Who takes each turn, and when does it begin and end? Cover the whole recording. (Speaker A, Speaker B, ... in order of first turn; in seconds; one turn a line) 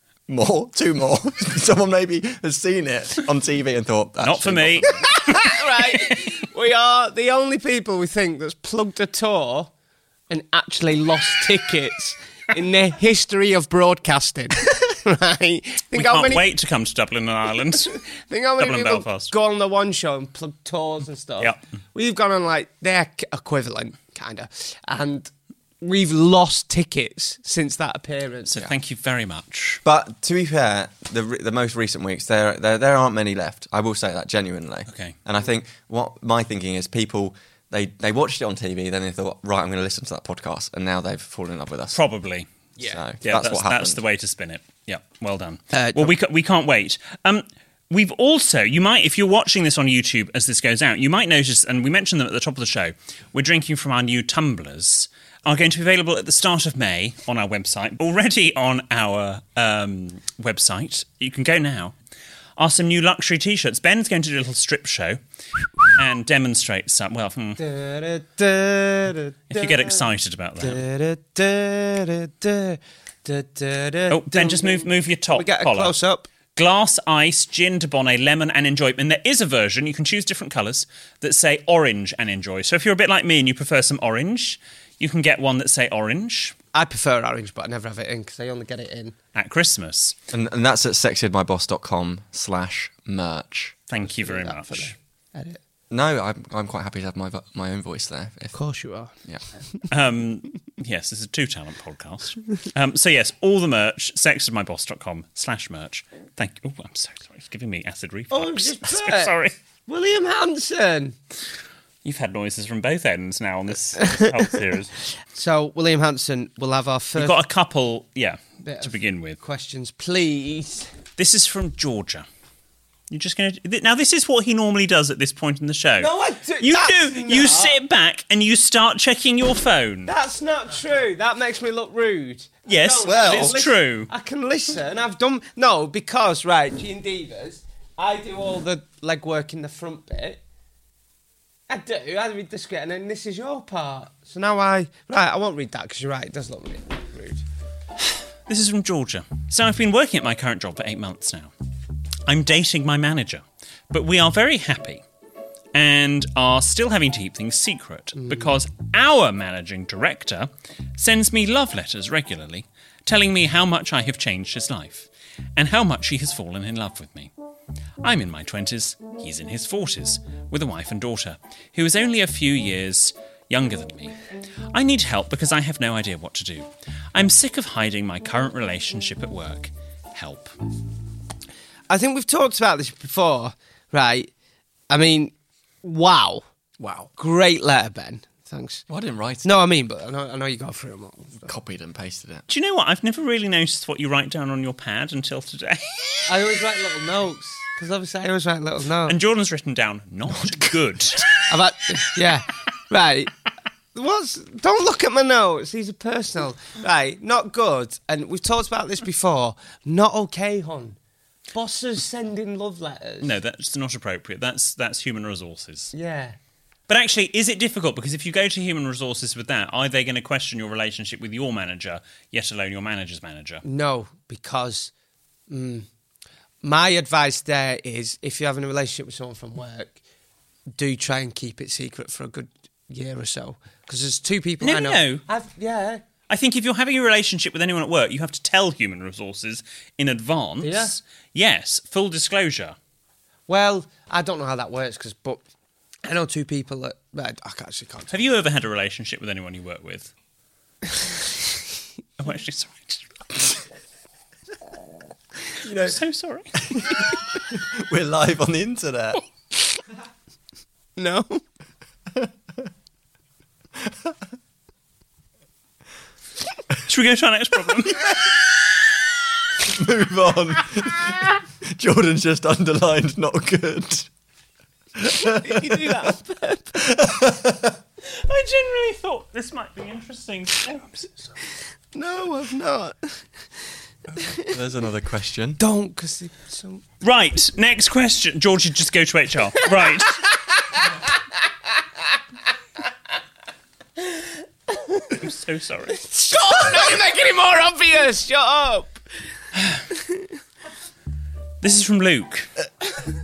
Speaker A: 0.3-5.1
Speaker B: 4.2-5.0
Speaker C: 5.1-9.7
Speaker C: 10.3-16.4
Speaker B: 15.9-18.0
Speaker C: 18.3-25.3
Speaker B: 18.6-19.3
Speaker C: 25.8-28.5
Speaker B: 28.5-29.8
Speaker A: 29.8-42.0
Speaker B: 34.9-35.2
Speaker B: 41.9-42.5
Speaker A: 42.8-44.0
Speaker B: 43.2-61.9
Speaker C: 45.7-46.1
Speaker B: 62.6-65.2
Speaker B: 65.9-67.6
Speaker C: 67.6-70.0
Speaker B: 69.5-70.8
Speaker C: 70.6-76.3
Speaker B: 74.1-76.0
Speaker B: 76.6-86.6
Speaker C: 86.7-89.2
Speaker B: 89.3-90.2
Speaker A: 90.3-93.8
Speaker B: 93.9-94.9
Speaker C: 94.0-95.6
Speaker A: 95.9-98.5
Speaker C: 98.5-99.1
Speaker B: 99.9-109.5
Speaker C: 108.3-111.2
Speaker B: 112.0-114.9
Speaker C: 114.2-114.4
Speaker C: 115.3-117.4
Speaker B: 117.2-119.4
Speaker C: 118.6-120.9
Speaker B: 121.2-122.3
Speaker B: 123.1-130.1
Speaker C: 126.0-127.8
Speaker C: 130.1-140.4
Speaker B: 132.7-134.1
Speaker A: 133.1-133.6
Speaker C: 141.7-147.4
Speaker B: 148.1-151.5
Speaker B: 152.3-155.0
Speaker B: 155.7-167.3
Speaker C: 158.2-158.5
Speaker B: 168.0-174.2
Speaker B: 174.7-180.5
Speaker C: 181.9-184.3
Speaker C: 184.9-186.4
Speaker A: 186.8-187.1
Speaker C: 187.2-188.8
Speaker A: 188.9-189.5
Speaker C: 189.4-191.5
Speaker A: 191.4-192.5
Speaker B: 192.5-196.2
Speaker C: 196.3-199.2
Speaker B: 199.1-201.3
Speaker C: 201.5-203.3
Speaker C: 203.9-211.0
Speaker C: 211.5-213.3
Speaker B: 213.2-215.9
Speaker C: 215.9-216.4
Speaker B: 216.9-223.6
Speaker C: 223.6-224.9
Speaker C: 225.5-225.9
Speaker C: 226.6-230.0
Speaker C: 230.7-236.0
Speaker B: 234.6-235.2
Speaker B: 236.3-242.8
Speaker C: 240.6-240.9
Speaker C: 243.5-245.4
Speaker C: 246.1-248.2
Speaker B: 248.1-250.1
Speaker B: 252.2-253.6
Speaker A: 255.7-256.0
Speaker B: 255.8-256.6
Speaker A: 257.7-259.2
Speaker C: 261.0-261.4
Speaker B: 266.9-268.2
Speaker A: 269.6-274.1
Speaker A: 275.0-275.8
Speaker C: 275.4-276.8
Speaker A: 276.8-277.7
Speaker B: 278.1-281.1
Speaker C: 281.9-283.2
Speaker C: 284.2-284.5
Speaker A: 284.5-285.6
Speaker C: 285.6-286.8
Speaker B: 287.0-290.2
Speaker C: 294.2-295.2
Speaker B: 295.2-296.0
Speaker C: 296.0-299.0
Speaker B: 301.6-302.5